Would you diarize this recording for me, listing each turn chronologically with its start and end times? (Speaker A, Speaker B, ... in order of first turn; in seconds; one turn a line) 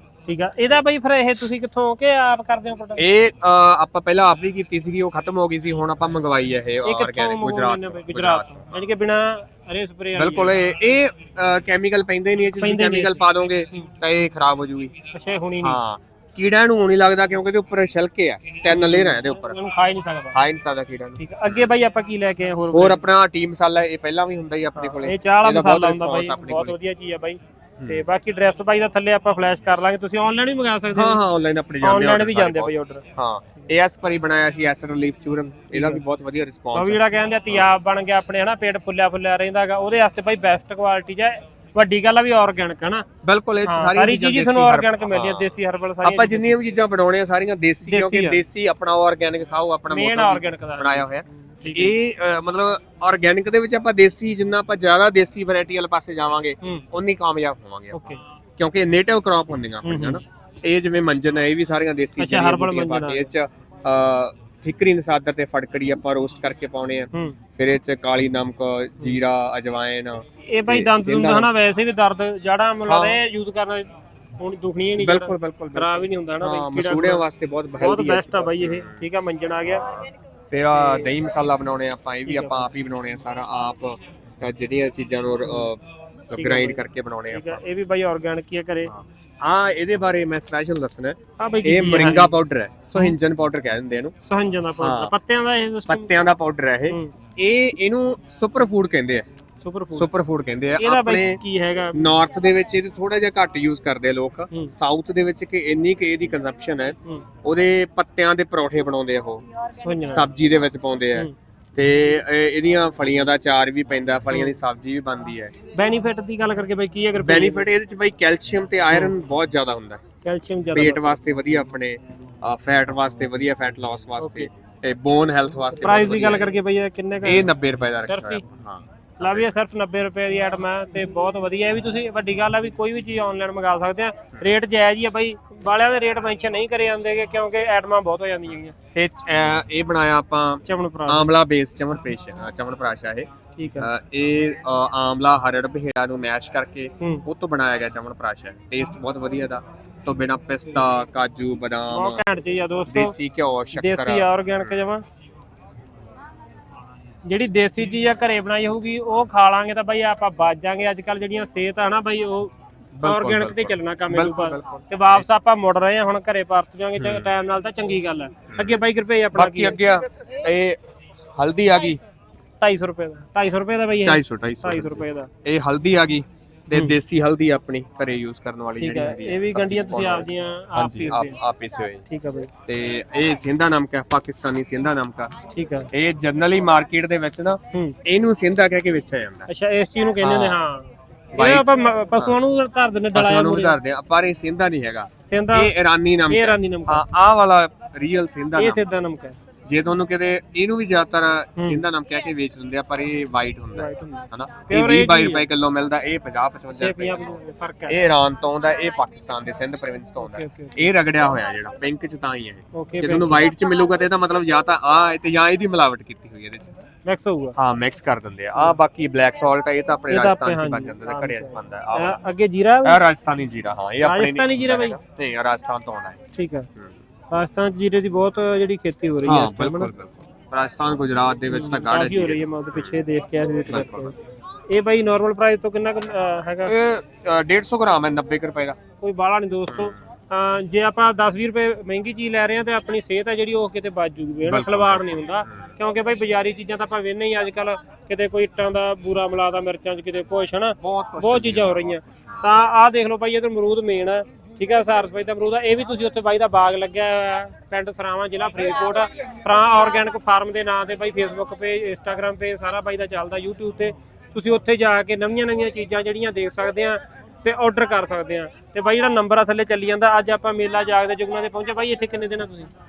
Speaker A: 0.3-3.0
Speaker B: 3.0-8.8
Speaker A: 6.8-10.5
Speaker B: 10.2-14.9
Speaker A: 12.6-13.2
Speaker A: 15.1-15.8
Speaker B: 15.6-19.6
Speaker A: 18.7-20.4
Speaker B: 20.3-21.7
Speaker A: 21.2-23.0
Speaker B: 22.7-26.8
Speaker A: 24.8-31.2
Speaker B: 27.8-28.1
Speaker B: 30.9-37.0
Speaker A: 31.8-33.0
Speaker A: 35.7-36.0
Speaker A: 36.7-43.1
Speaker B: 43.2-71.5
Speaker A: 43.6-46.6
Speaker A: 47.9-48.4
Speaker A: 49.9-51.9
Speaker A: 57.9-58.2
Speaker A: 59.9-60.2
Speaker A: 62.2-63.3
Speaker A: 70.5-77.2
Speaker B: 72.9-73.2
Speaker B: 75.0-79.0
Speaker A: 77.8-79.8
Speaker B: 79.7-87.6
Speaker A: 80.7-81.1
Speaker A: 82.3-82.7
Speaker A: 86.3-88.9
Speaker B: 88.9-94.1
Speaker A: 91.4-92.4
Speaker A: 94.2-96.1
Speaker B: 94.8-95.1
Speaker B: 95.9-99.3
Speaker A: 96.9-97.1
Speaker A: 99.6-100.1
Speaker B: 100.0-101.4
Speaker A: 100.8-102.1
Speaker B: 102.0-109.5
Speaker A: 109.8-110.3
Speaker B: 110.0-115.5
Speaker A: 114.3-114.6
Speaker A: 115.7-117.7
Speaker B: 117.2-120.0
Speaker A: 120.2-121.2
Speaker B: 120.7-126.6
Speaker A: 124.2-124.5
Speaker A: 125.8-127.5
Speaker B: 127.2-129.5
Speaker A: 128.1-128.4
Speaker A: 129.2-138.8
Speaker B: 138.9-143.3
Speaker A: 140.7-141.3
Speaker A: 143.6-143.9
Speaker B: 143.8-152.2
Speaker A: 151.9-153.2
Speaker B: 152.9-154.3
Speaker A: 153.8-155.0
Speaker A: 157.2-162.5
Speaker B: 163.0-165.3
Speaker A: 163.0-169.8
Speaker B: 167.0-167.3
Speaker B: 169.3-170.8
Speaker B: 171.4-172.0
Speaker A: 172.6-175.3
Speaker B: 174.0-182.1
Speaker A: 178.8-181.4
Speaker A: 182.1-182.5
Speaker B: 182.7-185.3
Speaker A: 185.5-185.9
Speaker B: 185.9-189.5
Speaker A: 187.7-188.0
Speaker A: 189.5-193.8
Speaker B: 190.2-190.6
Speaker B: 191.3-192.4
Speaker B: 193.1-198.8
Speaker A: 195.3-195.7
Speaker A: 196.3-197.0
Speaker A: 198.6-199.4
Speaker B: 199.7-207.3
Speaker A: 203.8-205.5
Speaker A: 206.7-208.0
Speaker B: 207.9-216.7
Speaker A: 210.2-210.8
Speaker A: 212.7-213.5
Speaker A: 217.1-217.6
Speaker B: 217.6-222.2
Speaker A: 220.1-223.0
Speaker B: 222.8-226.2
Speaker A: 224.0-225.0
Speaker A: 226.3-226.7
Speaker A: 227.3-229.9
Speaker B: 229.2-233.0
Speaker A: 231.5-234.1
Speaker B: 233.7-234.1
Speaker A: 234.7-236.7
Speaker B: 236.7-238.8
Speaker A: 239.0-272.7
Speaker B: 239.7-240.0
Speaker B: 244.4-245.7
Speaker B: 250.8-252.4